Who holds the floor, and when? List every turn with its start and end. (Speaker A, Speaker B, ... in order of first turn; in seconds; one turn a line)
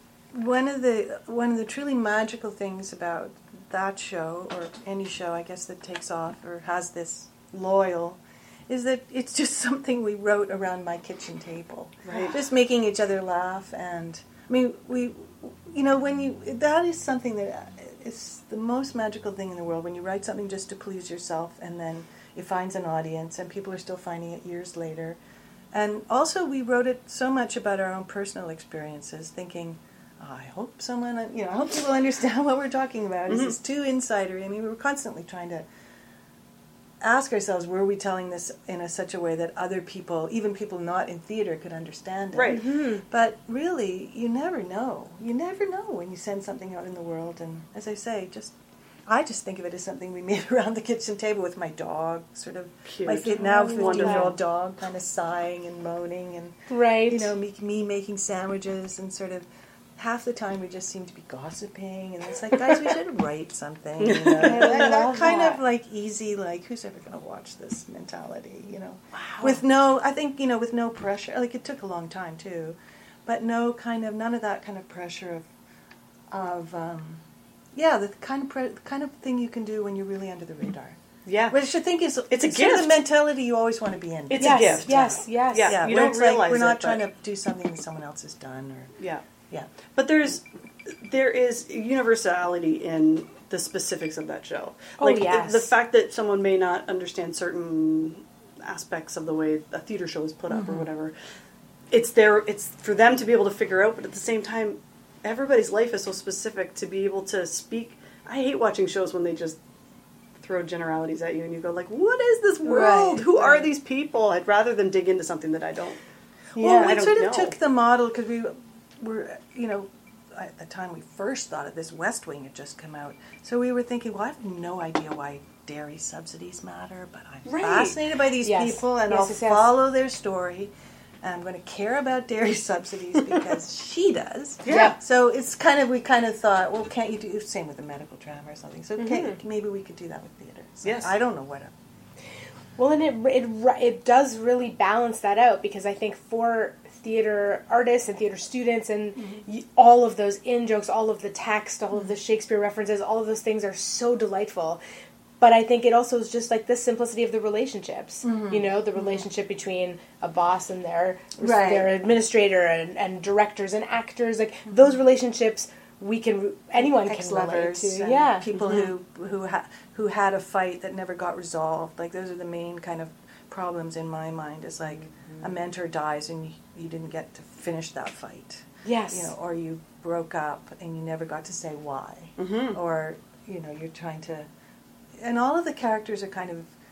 Speaker A: 0.3-25.2
Speaker B: 12.1-12.4
Speaker A: 25.7-35.7
Speaker B: 33.3-33.5
Speaker A: 37.0-48.5
Speaker B: 42.3-42.6
Speaker C: 42.5-43.0
Speaker A: 49.1-75.5
Speaker B: 52.9-54.4
Speaker C: 53.3-54.3
Speaker C: 56.7-57.3
Speaker B: 64.0-64.9
Speaker C: 64.3-65.6
Speaker C: 69.1-69.6
Speaker A: 76.3-77.2
Speaker A: 77.7-81.0
Speaker B: 81.2-81.5
Speaker A: 81.5-88.9
Speaker B: 82.3-83.0
Speaker B: 84.3-84.9
Speaker C: 84.4-85.8
Speaker B: 85.5-87.0
Speaker B: 89.9-101.1
Speaker C: 95.0-95.7
Speaker A: 100.5-100.8
Speaker B: 101.9-109.6
Speaker B: 110.4-116.0
Speaker A: 112.6-113.6
Speaker A: 116.5-141.7
Speaker B: 116.6-117.5
Speaker B: 127.5-128.0
Speaker C: 128.4-129.8
Speaker B: 134.6-134.9
Speaker C: 134.7-134.9
Speaker C: 139.0-139.3
Speaker B: 140.8-141.1
Speaker C: 142.8-154.8
Speaker C: 155.4-168.5
Speaker A: 158.2-158.7
Speaker A: 161.4-161.9
Speaker A: 166.8-184.5
Speaker B: 168.6-168.9
Speaker C: 178.8-179.3
Speaker B: 182.4-182.8
Speaker A: 185.2-186.7